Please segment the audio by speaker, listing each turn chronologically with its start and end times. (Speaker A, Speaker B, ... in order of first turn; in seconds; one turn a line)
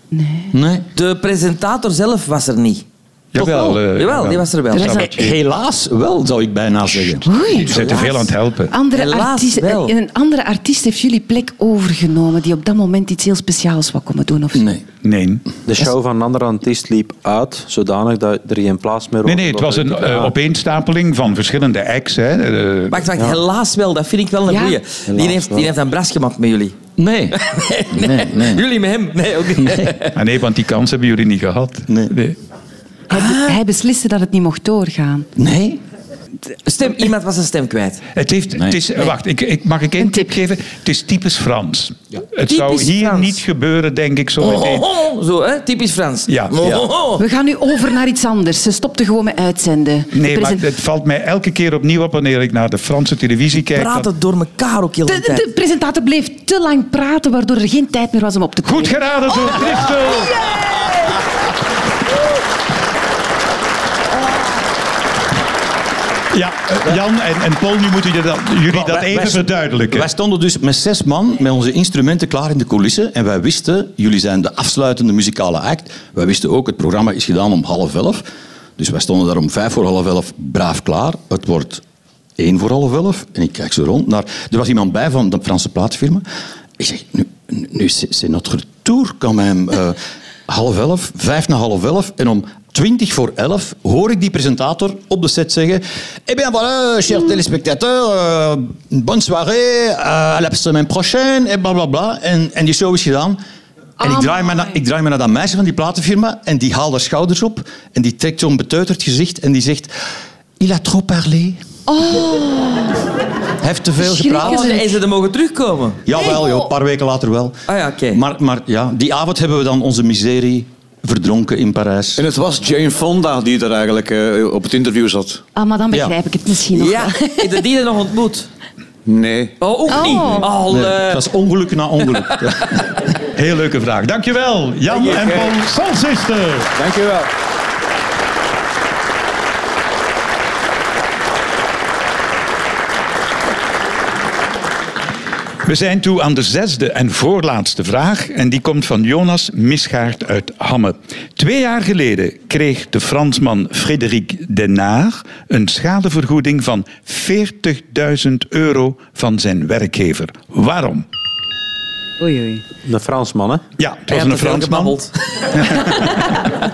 Speaker A: 0.1-0.5
Speaker B: 0.5-0.9
Speaker C: 0.9-2.9
Speaker D: 3.3-5.4
Speaker C: 3.4-5.0
Speaker A: 4.7-5.1
Speaker B: 5.1-8.0
Speaker A: 7.2-8.1
Speaker D: 7.5-8.7
Speaker C: 7.9-8.2
Speaker A: 8.7-14.7
Speaker C: 8.9-9.9
Speaker B: 14.5-14.8
Speaker D: 15.0-15.4
Speaker E: 15.7-20.3
Speaker D: 19.2-23.1
Speaker C: 22.9-26.8
Speaker A: 24.5-24.8
Speaker E: 25.1-25.7
Speaker B: 27.0-27.4
Speaker C: 27.3-30.1
Speaker B: 27.9-28.6
Speaker B: 29.6-29.9
Speaker D: 30.1-32.4
Speaker B: 31.9-32.1
Speaker A: 33.1-35.3
Speaker C: 33.1-33.6
Speaker B: 35.4-35.8
Speaker C: 36.6-38.0
Speaker D: 38.1-44.9
Speaker B: 38.6-38.8
Speaker A: 40.0-40.3
Speaker C: 42.5-43.4
Speaker C: 44.4-47.2
Speaker D: 46.3-46.8
Speaker A: 47.2-50.6
Speaker D: 50.1-54.1
Speaker C: 53.6-55.4
Speaker A: 55.1-61.1
Speaker D: 58.6-60.4
Speaker D: 66.3-70.1
Speaker B: 68.7-78.2
Speaker B: 78.8-81.8
Speaker B: 82.4-86.2
Speaker B: 86.8-103.4
Speaker B: 104.0-109.9
Speaker A: 104.0-104.5
Speaker B: 110.6-111.6
Speaker A: 111.9-113.0
Speaker B: 113.6-114.8
Speaker A: 114.0-114.9
Speaker C: 114.3-116.0
Speaker B: 116.0-117.6
Speaker A: 116.1-116.7
Speaker C: 117.7-118.2
Speaker B: 118.1-122.3
Speaker F: 122.2-125.4
Speaker A: 125.5-127.7
Speaker C: 126.7-128.5
Speaker F: 129.1-129.6
Speaker C: 129.6-131.3
Speaker A: 129.9-130.5
Speaker B: 130.4-132.8
Speaker C: 132.0-132.5
Speaker D: 133.3-136.7
Speaker C: 134.9-135.5
Speaker F: 136.8-137.2
Speaker D: 145.6-161.1
Speaker A: 162.2-162.6
Speaker E: 162.8-163.6
Speaker D: 163.8-165.0
Speaker C: 164.1-166.1
Speaker D: 165.5-166.3